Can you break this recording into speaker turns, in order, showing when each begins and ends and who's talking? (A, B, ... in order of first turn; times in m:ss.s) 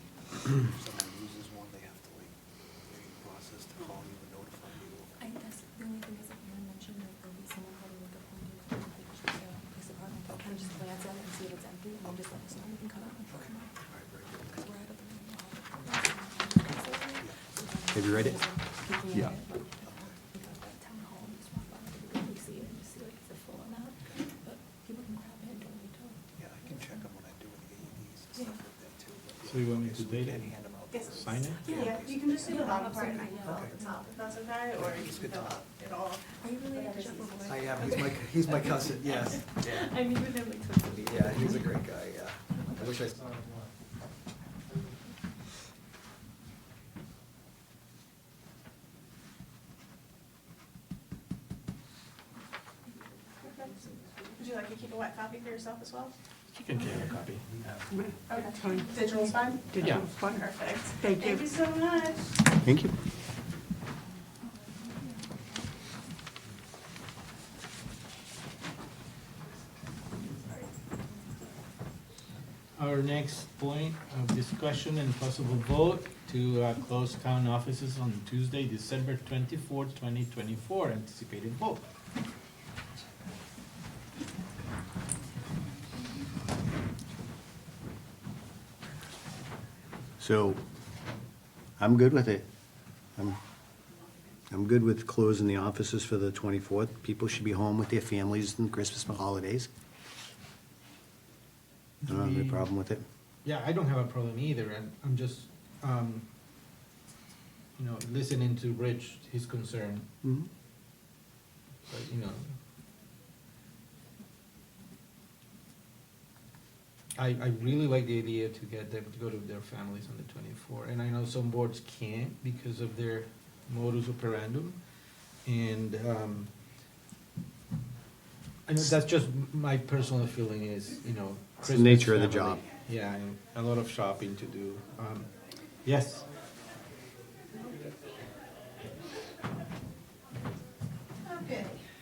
0:00.5-0:02.3 A
0:02.9-0:05.2 A
0:05.2-0:13.7 B
0:13.3-0:14.7 A
0:14.6-0:27.0 B
0:16.6-0:17.3 A
0:17.9-0:18.4 C
0:26.4-0:32.6 A
0:29.4-0:31.8 D
0:30.9-0:37.5 E
0:31.7-0:34.1 B
0:33.5-0:33.8 A
0:34.8-0:35.6 A
0:36.3-0:41.8 B
0:37.4-0:39.8 A
0:41.0-0:43.1 A
0:53.4-0:53.7 E
0:54.4-0:56.1 E
0:56.5-0:57.4 D
0:58.3-1:02.4 E
0:59.8-1:00.0 D
1:02.6-1:02.9 C
1:12.8-1:21.8 D
1:30.2-1:30.6 C
1:31.8-1:32.4 C
1:34.5-1:39.7 C
1:42.0-1:42.7 D
1:42.1-1:43.0 C
1:43.4-1:46.2 D
1:47.8-1:50.0 D
1:51.9-1:52.4 D
1:57.2-2:04.8 D
2:05.4-2:06.5 D
2:08.7-2:15.3 D
2:11.6-2:12.6 C
2:15.8-2:16.2 D